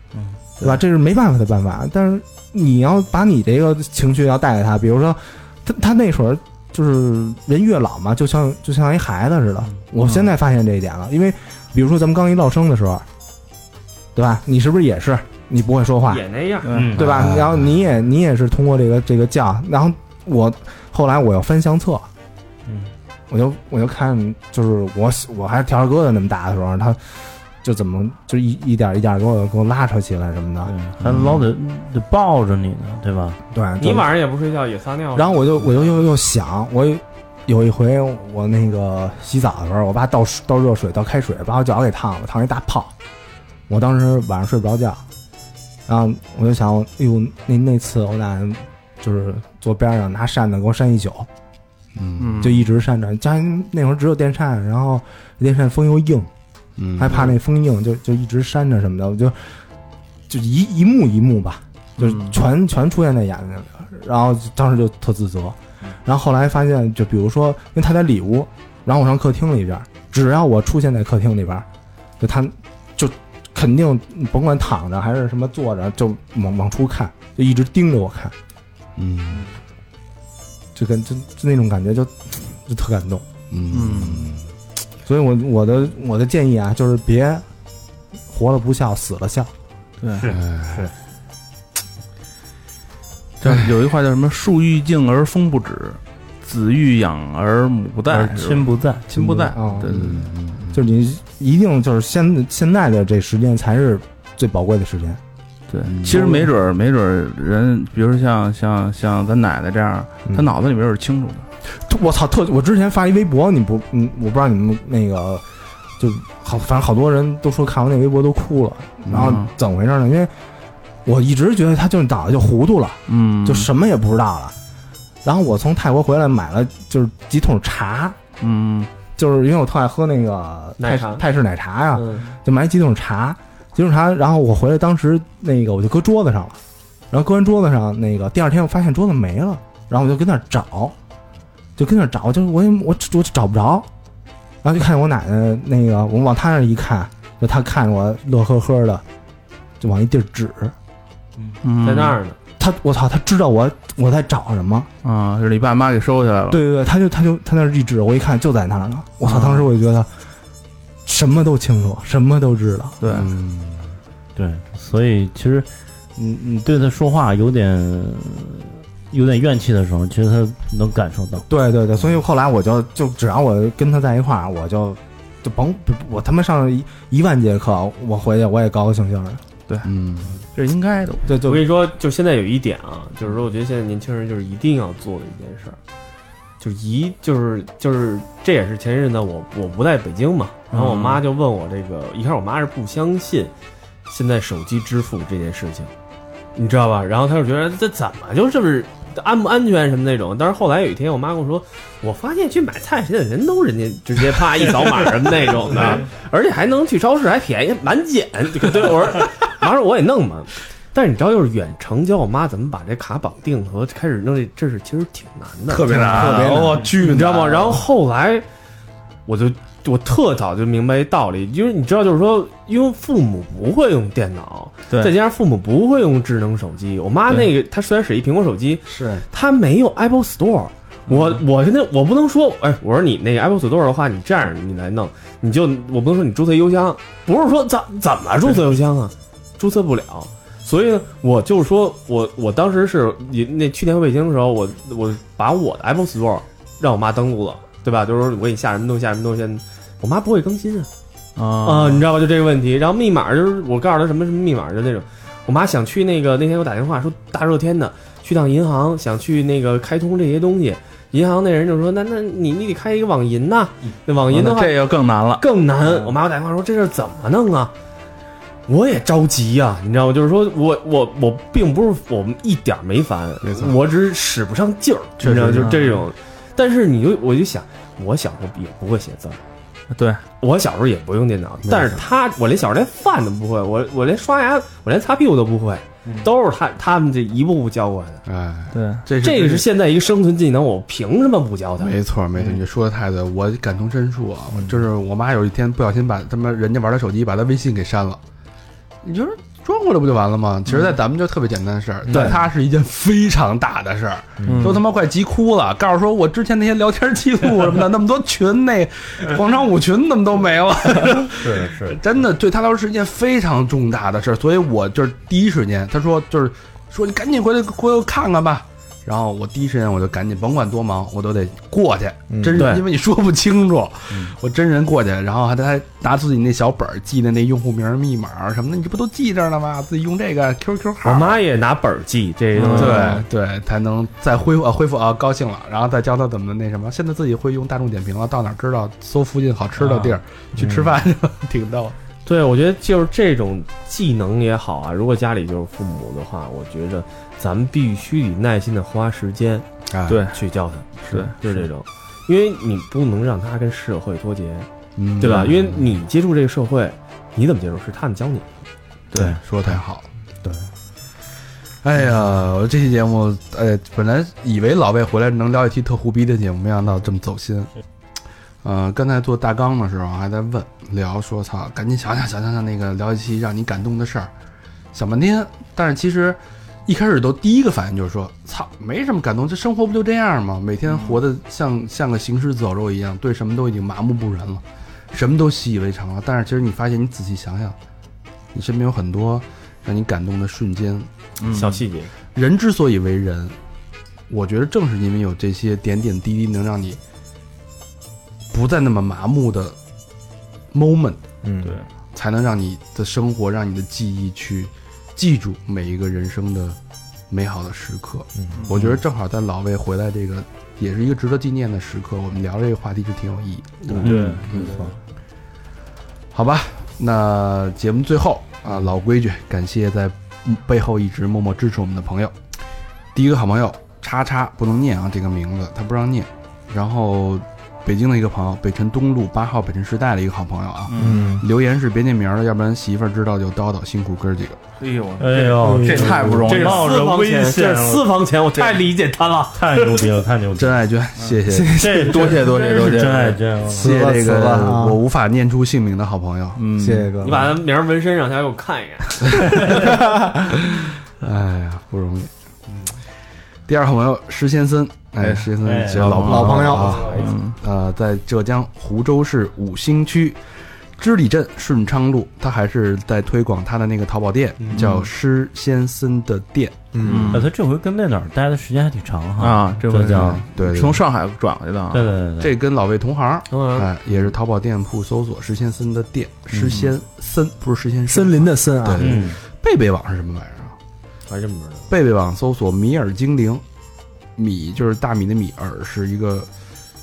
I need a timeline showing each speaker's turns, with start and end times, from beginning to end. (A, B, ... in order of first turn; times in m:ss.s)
0:00.6-0:13.0 A
0:10.0-0:10.3 B
0:14.1-0:16.2 A
0:16.1-0:16.8 C
0:16.6-0:16.9 B
0:16.7-0:17.1 D
0:16.9-0:22.1 A
0:17.0-0:17.8 E
0:23.3-0:30.7 A
0:30.6-0:33.4 D
0:33.5-0:34.1 A
0:33.8-0:36.0 C
0:35.1-0:42.9 A
0:43.7-0:45.0 A
0:45.9-0:51.3 A
0:51.9-0:52.5 E
0:52.2-0:52.7 B
0:52.4-0:56.3 A
0:56.8-0:57.2 E
0:57.0-0:59.6 A
1:00.3-1:11.7 A
1:02.0-1:02.4 B
1:12.2-1:18.3 A
1:19.0-1:19.5 E
1:20.7-1:23.2 A
1:23.5-1:24.4 E
1:23.7-1:24.3 B
1:25.0-1:27.4 A
1:28.3-1:29.5 A
1:30.0-1:30.3 B
1:30.2-1:30.9 D
1:30.3-1:30.9 E
1:33.4-1:40.2 B
1:33.4-1:33.7 E
1:38.1-1:39.0 D
1:39.1-1:40.1 A
1:39.9-1:40.8 E
1:40.7-1:45.2 A
1:45.7-1:51.5 B
1:45.8-1:46.4 E
1:46.0-1:46.5 A
1:51.7-1:55.4 A
1:56.0-2:00.3 A
1:59.0-1:59.3 E
1:59.1-1:59.5 B
2:01.0-2:04.5 A
2:03.1-2:03.7 B
2:05.2-2:08.2 A
2:08.4-2:08.9 B
2:09.2-2:16.6 A
2:10.8-2:11.3 C
2:11.9-2:12.3 C
2:17.1-2:20.9 A
2:21.8-2:23.9 A
2:24.6-2:29.0 A
2:29.8-2:30.7 A
2:31.6-2:32.2 B
2:31.8-2:32.4 C
2:32.6-2:34.9 A
2:35.0-2:36.6 B
2:36.5-2:40.1 A
2:39.2-2:39.7 B
2:41.0-2:43.0 A
2:43.0-2:43.3 B
2:43.1-2:44.0 E
2:44.4-2:51.5 D
2:51.5-2:59.4 A
2:59.8-3:00.3 E
3:00.5-3:01.3 B
3:01.2-3:01.6 A
3:01.4-3:05.8 C
3:06.6-3:13.5 C
3:10.7-3:11.2 B
3:14.1-3:15.9 C
3:16.5-3:36.2 C
3:35.7-3:37.8 E
3:35.9-3:36.8 A
3:36.0-3:36.7 B
3:37.0-3:38.4 C
3:39.2-4:10.9 C
3:48.9-3:49.2 E
3:51.1-3:51.4 B
4:11.4-4:12.0 B
4:11.6-4:27.7 C
4:24.3-4:26.1 B
4:28.7-4:39.4 C
4:33.4-4:33.8 E
4:35.2-4:35.9 E
4:35.5-4:36.0 B
4:39.9-4:40.2 B
4:40.4-4:48.2 C
4:41.6-4:42.0 E
4:48.2-4:49.6 E
4:48.7-4:49.0 B
4:49.2-4:51.9 C
4:51.8-4:58.2 E
4:54.5-4:54.8 A
4:59.0-5:31.4 E
5:02.0-5:02.4 A
5:04.4-5:04.8 A
5:04.4-5:04.8 B
5:11.4-5:12.0 D
5:22.3-5:22.7 A
5:22.6-5:22.8 C
5:31.0-5:33.2 C
5:32.6-5:33.2 B
5:32.7-5:42.0 E
5:39.8-5:40.1 B
5:40.5-5:41.0 A
5:42.2-5:49.6 C
5:49.9-5:50.2 E
5:50.1-5:50.4 B
5:50.3-5:58.6 C
5:51.1-5:51.3 B
5:55.0-5:55.8 E
5:59.1-5:59.4 B
5:59.1-6:00.1 E
6:01.8-6:07.7 E
6:08.6-6:14.3 E
6:14.9-6:27.8 E
6:28.5-6:31.1 E
6:31.4-6:31.8 B
6:31.4-6:32.1 C
6:32.3-6:33.6 E
6:34.3-6:37.0 E
6:38.5-6:39.8 E
6:40.7-6:41.2 E
6:41.4-6:41.8 A
6:42.1-6:46.8 E
6:47.3-6:54.8 E
6:48.4-6:48.8 A
6:48.5-6:49.0 B
6:53.8-6:54.1 C
6:54.0-6:54.8 B
6:54.0-6:54.4 D
6:54.5-6:54.9 A
6:56.3-7:02.3 E
7:03.1-7:14.6 E
7:10.9-7:11.3 B
7:11.0-7:11.4 A
7:14.8-7:17.1 B
7:15.2-7:18.1 D
7:15.6-7:16.3 A
7:16.4-7:19.8 C
7:19.5-7:20.8 D
7:20.6-7:22.3 E
7:21.5-7:22.5 A
7:21.7-7:23.9 D
7:22.0-7:23.4 B
7:23.7-7:25.0 A
7:23.7-7:26.6 E
7:26.6-7:27.1 B
7:26.8-7:27.5 A
7:27.2-7:30.0 C
7:30.6-7:32.8 E
7:33.7-7:40.4 E
7:35.2-7:37.6 B
7:35.6-7:37.3 D
7:36.2-7:37.1 A
7:41.0-7:47.4 E
7:44.7-7:45.0 B
7:46.9-7:47.3 A
7:47.0-7:47.5 B
7:47.3-7:50.4 D
7:49.4-7:52.1 B
7:50.2-7:51.0 E
7:51.9-7:52.6 D
7:52.4-8:00.7 E
7:53.5-7:53.9 C
7:56.5-7:56.9 A
7:58.1-7:59.2 A
7:59.0-7:59.4 D
8:01.3-8:01.9 C
8:01.9-8:03.6 E
8:04.4-8:06.5 E